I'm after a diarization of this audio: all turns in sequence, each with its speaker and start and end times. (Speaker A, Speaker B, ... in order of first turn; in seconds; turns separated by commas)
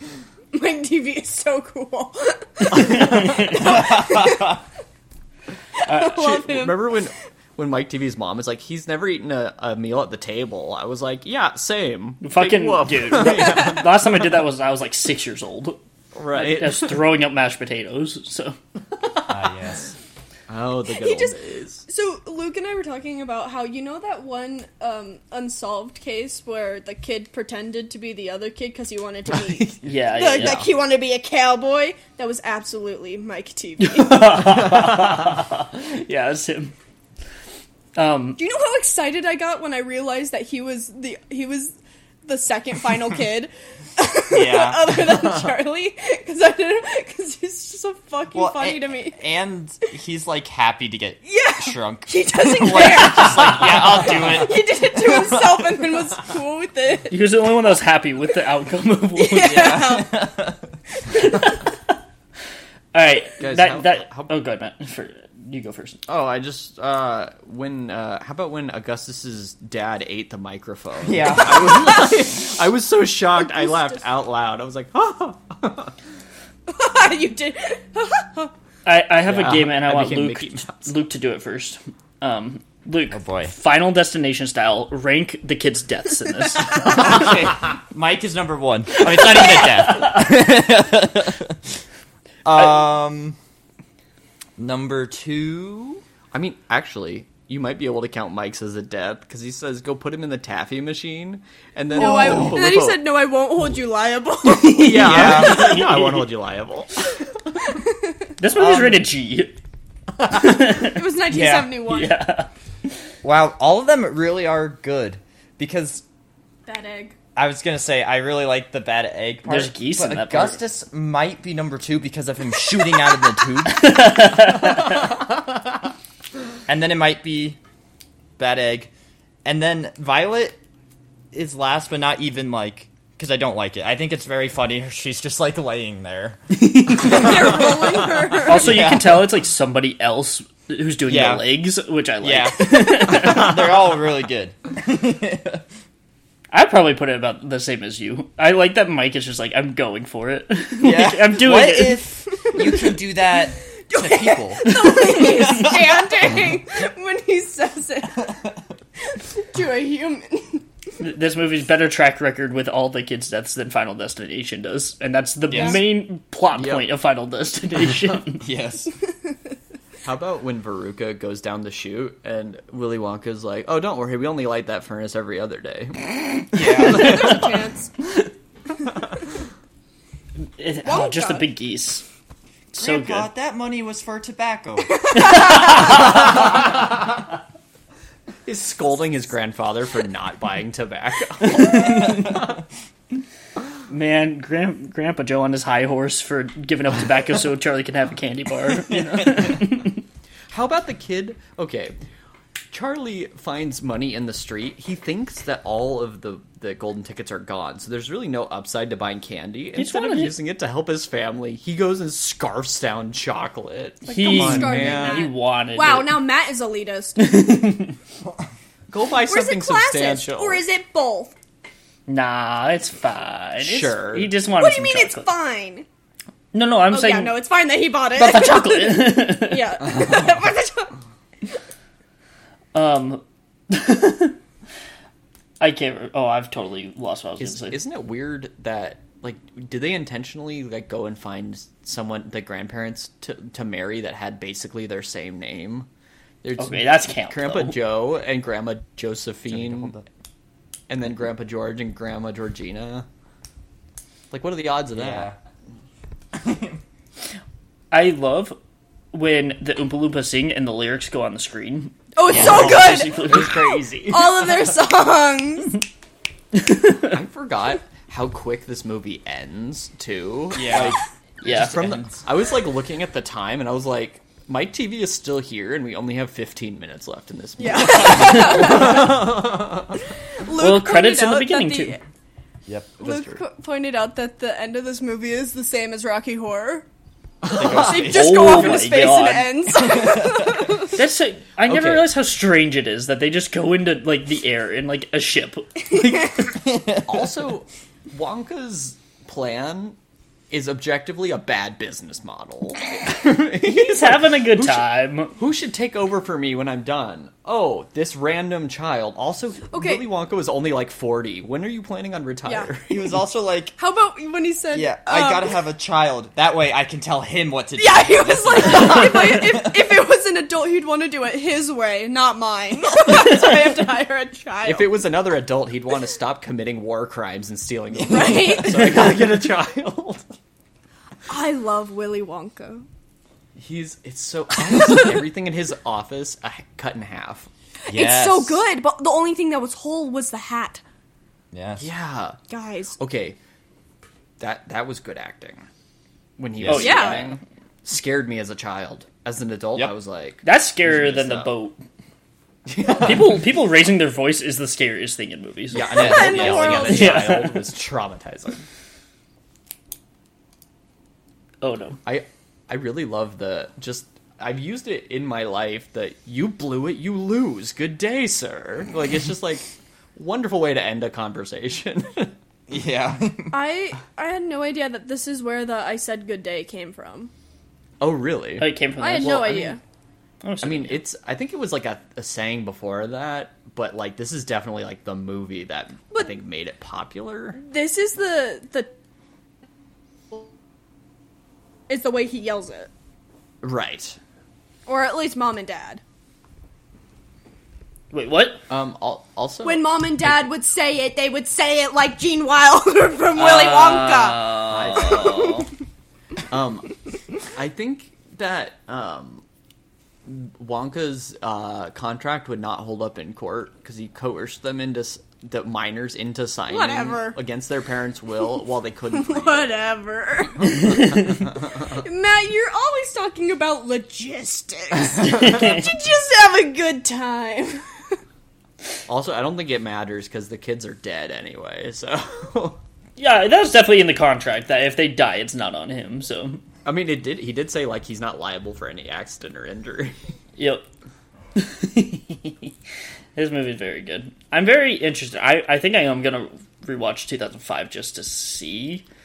Speaker A: 0.5-4.6, Speaker B: 2.7-3.9, Speaker C: 2.8-3.5, Speaker D: 3.5-4.6, Speaker A: 5.8-6.9, Speaker C: 5.9-14.0, Speaker B: 12.2-15.8, Speaker A: 13.4-13.7, Speaker C: 16.1-17.0, Speaker B: 16.3-18.6, Speaker D: 19.3-19.9, Speaker C: 20.5-21.8, Speaker A: 20.9-34.3, Speaker C: 29.4-29.8, Speaker B: 29.8-30.7, Speaker C: 30.3-30.7, Speaker B: 33.8-36.7, Speaker B: 38.0-38.4, Speaker A: 38.4-41.7, Speaker A: 42.2-49.2, Speaker D: 44.3-45.2, Speaker D: 48.3-55.2, Speaker A: 51.2-57.2, Speaker B: 57.1-59.8, Speaker A: 59.1-60.3, Speaker D: 59.4-60.7, Speaker A: 61.1-61.4, Speaker B: 61.2-61.6, Speaker B: 62.9-66.0, Speaker C: 63.4-64.3, Speaker C: 66.1-75.9, Speaker D: 71.0-72.1, Speaker A: 73.6-73.9, Speaker A: 76.7-78.5, Speaker B: 78.8-87.3, Speaker C: 79.2-80.9, Speaker D: 83.1-83.5, Speaker D: 86.7-91.6, Speaker B: 89.3-89.7, Speaker D: 92.4-93.4, Speaker D: 94.6-96.0, Speaker C: 96.3-103.0, Speaker A: 101.9-105.3, Speaker B: 104.5-106.3, Speaker C: 104.8-107.2, Speaker D: 104.9-105.9, Speaker A: 107.7-108.2, Speaker B: 108.4-109.5, Speaker C: 108.6-108.9, Speaker B: 110.2-111.1, Speaker A: 110.7-112.2, Speaker D: 111.3-111.8, Speaker B: 111.8-112.5, Speaker D: 113.2-116.0, Speaker A: 116.7-117.2, Speaker D: 117.3-123.9, Speaker B: 119.4-120.6, Speaker B: 123.7-125.0, Speaker D: 126.7-127.6, Speaker D: 128.4-128.9, Speaker D: 129.4-130.6, Speaker D: 131.3-139.3, Speaker B: 136.6-137.5, Speaker A: 137.0-138.8, Speaker B: 138.4-143.8, Speaker D: 141.1-141.4, Speaker D: 142.2-145.6, Speaker B: 146.5-152.2, Speaker D: 150.8-155.9, Speaker A: 152.4-153.0, Speaker A: 153.9-158.4, Speaker B: 154.7-155.4, Speaker A: 159.1-160.6, Speaker B: 161.0-168.4, Speaker D: 165.5-165.8, Speaker D: 168.4-168.9, Speaker C: 170.0-177.3, Speaker D: 176.5-177.5, Speaker A: 176.8-177.9, Speaker B: 180.6-182.0, Speaker A: 180.8-181.5, Speaker B: 182.7-183.3, Speaker D: 182.8-185.5, Speaker A: 185.0-185.8, Speaker B: 185.1-186.2, Speaker C: 188.4-192.4, Speaker B: 191.4-192.4, Speaker B: 193.9-200.0, Speaker D: 199.1-199.4, Speaker C: 200.5-201.9, Speaker C: 202.7-215.3, Speaker B: 209.8-210.3, Speaker B: 214.1-216.3, Speaker A: 214.1-217.4, Speaker B: 217.2-217.9, Speaker C: 218.9-220.6, Speaker A: 219.3-221.3, Speaker B: 222.1-225.3, Speaker C: 223.6-224.3, Speaker A: 224.6-225.8, Speaker B: 226.5-227.4, Speaker A: 226.9-230.9, Speaker B: 228.1-229.8, Speaker B: 232.7-234.4, Speaker B: 235.6-237.8, Speaker C: 237.4-245.9, Speaker C: 246.4-249.9, Speaker B: 246.6-247.8, Speaker D: 249.5-250.0, Speaker C: 250.9-253.1, Speaker C: 254.3-255.3, Speaker D: 254.9-255.3, Speaker D: 256.3-256.8, Speaker B: 257.9-258.6, Speaker B: 259.1-263.7, Speaker A: 262.1-265.8, Speaker C: 262.3-264.6, Speaker B: 266.5-267.1, Speaker C: 267.0-280.0, Speaker D: 270.5-271.0, Speaker B: 271.4-271.9, Speaker D: 271.5-272.2, Speaker A: 277.6-279.4, Speaker A: 280.3-282.0, Speaker B: 280.6-282.0, Speaker D: 282.7-283.0, Speaker C: 283.0-283.4, Speaker A: 283.0-286.8, Speaker C: 287.4-288.0, Speaker D: 287.5-288.8, Speaker A: 287.5-291.0, Speaker B: 287.9-289.8, Speaker D: 290.0-290.4, Speaker B: 290.8-296.6, Speaker C: 291.6-292.1, Speaker D: 296.6-297.0, Speaker C: 297.0-300.0, Speaker C: 300.5-313.1, Speaker B: 303.6-305.3, Speaker A: 309.7-310.0, Speaker A: 312.4-312.7, Speaker D: 312.9-313.8, Speaker A: 313.8-315.6, Speaker D: 314.7-319.7, Speaker A: 317.8-325.0, Speaker C: 324.6-330.2, Speaker D: 328.0-328.6, Speaker A: 328.1-328.9, Speaker A: 331.3-332.9, Speaker C: 333.6-337.5, Speaker A: 337.9-340.8, Speaker D: 337.9-338.6, Speaker D: 341.5-341.9, Speaker C: 341.8-342.4, Speaker A: 342.5-343.0, Speaker C: 343.0-343.4, Speaker C: 344.4-345.7, Speaker C: 346.4-351.5, Speaker D: 346.6-346.9, Speaker B: 346.6-347.3, Speaker A: 346.7-347.2, Speaker B: 350.4-351.8, Speaker C: 352.6-353.5, Speaker B: 352.9-356.0, Speaker C: 355.7-358.6, Speaker A: 355.9-357.3, Speaker D: 355.9-357.3, Speaker B: 356.9-357.6, Speaker B: 361.6-362.0, Speaker C: 362.0-372.3, Speaker D: 372.7-373.6, Speaker A: 373.5-377.3, Speaker C: 378.0-378.7, Speaker B: 378.6-379.8, Speaker A: 379.0-379.8, Speaker B: 380.4-381.0, Speaker C: 380.6-387.6, Speaker A: 387.6-388.9, Speaker A: 391.9-392.9, Speaker C: 393.6-394.2, Speaker A: 394.9-396.0, Speaker B: 398.1-398.6, Speaker C: 398.7-399.9, Speaker A: 399.6-405.6, Speaker B: 403.4-405.2, Speaker C: 404.6-405.6, Speaker C: 406.5-406.9, Speaker C: 407.5-409.4, Speaker C: 410.2-419.7, Speaker A: 416.7-417.4, Speaker A: 419.1-421.2, Speaker A: 421.8-427.8, Speaker B: 425.2-425.9, Speaker C: 429.1-432.8, Speaker B: 433.2-436.6, Speaker C: 436.8-440.1, Speaker B: 440.6-440.8, Speaker B: 441.6-442.7, Speaker B: 443.4-449.0